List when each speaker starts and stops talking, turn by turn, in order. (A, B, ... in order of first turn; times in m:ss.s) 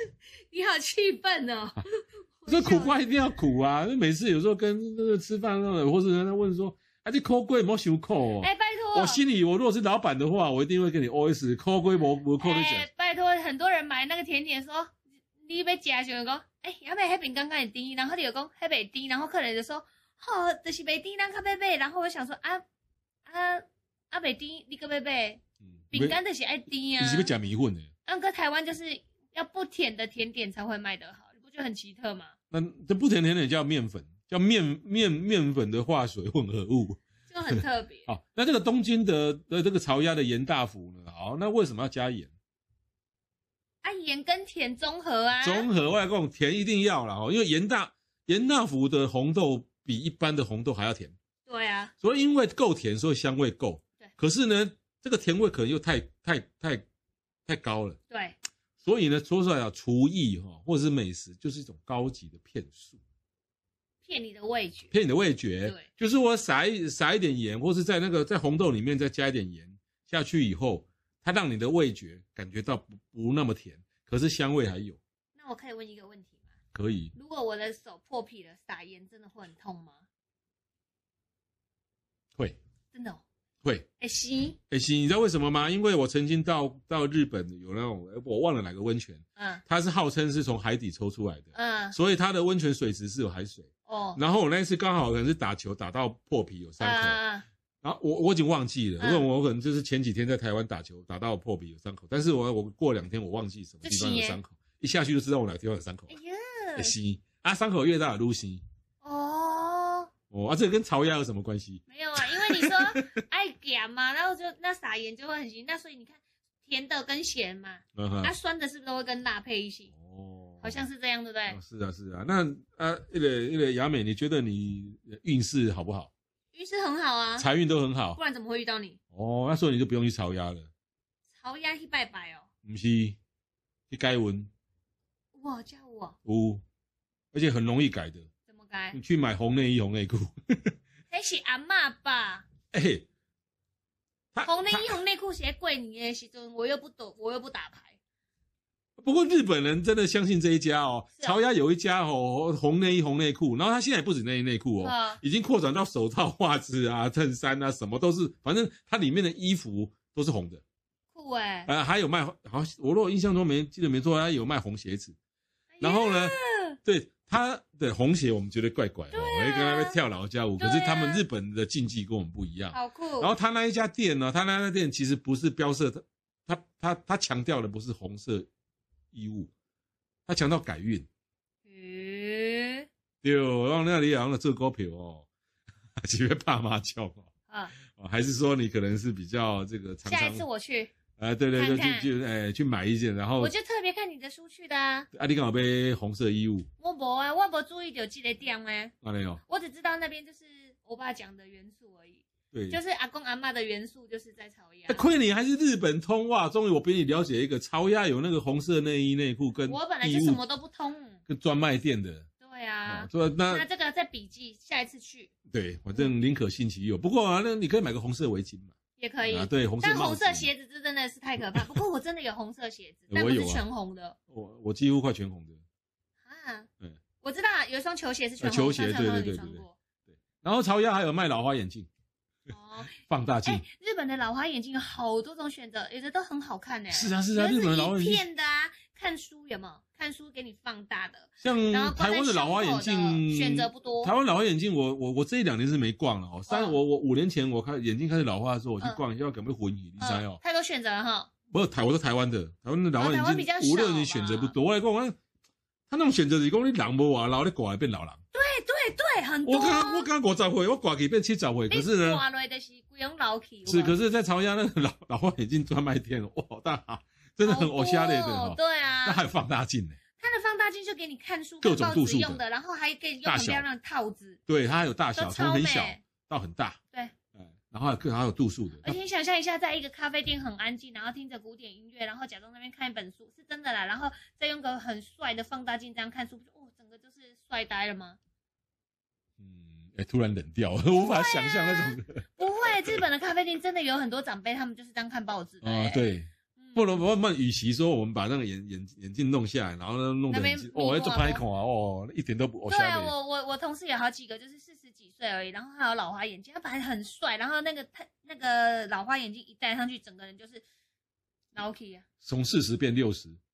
0:00.4-0:03.0 A
0:02.5-0:12.9 B
0:08.4-0:09.2 A
0:12.4-0:22.6 A
0:23.3-0:27.3 A
0:25.6-0:26.2 B
0:27.0-0:27.9 B
0:28.1-0:32.3 A
0:32.5-0:42.3 B
0:37.3-0:38.1 A
0:43.8-0:45.7 A
0:45.4-0:51.2 B
0:51.5-0:51.9 A
0:52.0-0:56.8 B
0:57.5-0:58.0 B
0:58.1-0:58.4 A
0:58.8-1:03.0 B
1:04.0-1:04.9 A
1:04.9-1:15.0 B
1:15.4-1:16.5 A
1:16.7-1:17.1 B
1:17.2-1:20.0 A
1:22.9-1:23.2 A
1:24.0-1:24.6 A
1:24.7-1:37.2 B
1:29.4-1:29.6 A
1:31.5-1:32.0 A
1:33.9-1:34.2 A
1:36.8-1:37.5 A
1:37.8-1:46.1 B
1:39.0-1:39.3 A
1:43.8-1:44.4 A
1:46.1-1:47.0 A
1:46.8-1:48.6 B
1:49.0-1:50.1 A
1:50.3-1:53.2 B
1:51.9-1:59.9 A
1:58.0-1:58.3 B
1:59.9-2:00.8 B
2:00.6-2:01.6 A
2:01.5-2:06.1 B
2:06.5-2:07.5 A
2:07.4-2:08.2 B
2:08.2-2:09.0 A
2:09.1-2:10.7 B
2:11.3-2:12.5 A
2:12.6-2:13.2 B
2:13.9-2:14.5 B
2:15.3-2:16.2 A
2:16.2-2:16.6 B
2:17.3-2:18.3 B
2:18.5-2:19.0 A
2:18.9-2:20.8 B
2:21.1-2:22.5 A
2:22.7-2:23.1 B
2:24.3-2:25.0 B
2:24.4-2:28.0 A
2:29.0-2:40.6 B
2:34.8-2:35.2 A
2:41.1-2:41.7 A
2:41.7-2:45.2 B
2:45.7-2:46.8 A
2:45.8-2:58.5 B
2:49.1-2:50.0 A
2:50.6-2:51.2 A
2:52.7-2:53.3 A
2:59.1-2:59.5 B
3:00.3-3:01.1 B
3:01.7-3:02.9 A
3:03.2-3:05.3 B
3:06.0-3:10.4 B
3:07.5-3:07.7 A
3:10.0-3:10.9 A
3:11.2-3:13.5 B
3:11.6-3:12.1 A
3:13.4-3:15.1 A
3:15.1-3:16.7 B
3:16.8-3:18.9 A
3:19.0-3:19.4 B
3:19.5-3:25.0 A
3:22.5-3:22.8 B
3:24.9-3:30.4 B
3:29.7-3:31.2 A
3:31.3-3:32.3 B
3:32.4-3:35.3 A
3:32.9-3:33.7 B
3:35.5-3:38.7 B
3:39.0-3:44.2 A
3:39.3-3:40.5 B
3:43.1-3:43.6 B
3:44.3-3:45.6 B
3:46.2-3:46.7 A
3:47.2-3:49.8 A
3:48.4-3:51.9 B
3:52.5-4:04.1 A
3:52.9-3:53.6 B
3:56.9-3:58.2 B
4:01.4-4:10.4 B
4:06.5-4:06.8 A
4:10.0-4:11.3 A
4:11.5-4:15.2 B
4:13.0-4:14.6 A
4:15.9-4:18.2 B
4:18.3-4:20.1 A
4:19.4-4:22.2 B
4:21.7-4:24.0 A
4:23.7-4:30.0 B
4:27.4-4:29.2 A
4:30.2-4:34.4 A
4:31.6-4:32.4 B
4:33.2-4:33.7 B
4:34.5-4:36.8 B
4:35.2-4:36.0 A
4:37.4-4:39.0 B
4:38.8-4:48.2 A
4:49.4-4:53.0 B
4:50.9-4:56.0 A
4:55.6-5:03.1 B
4:56.6-4:56.9 A
5:00.3-5:01.4 A
5:02.7-5:10.6 A
5:11.5-5:12.1 A
5:12.2-5:13.4 B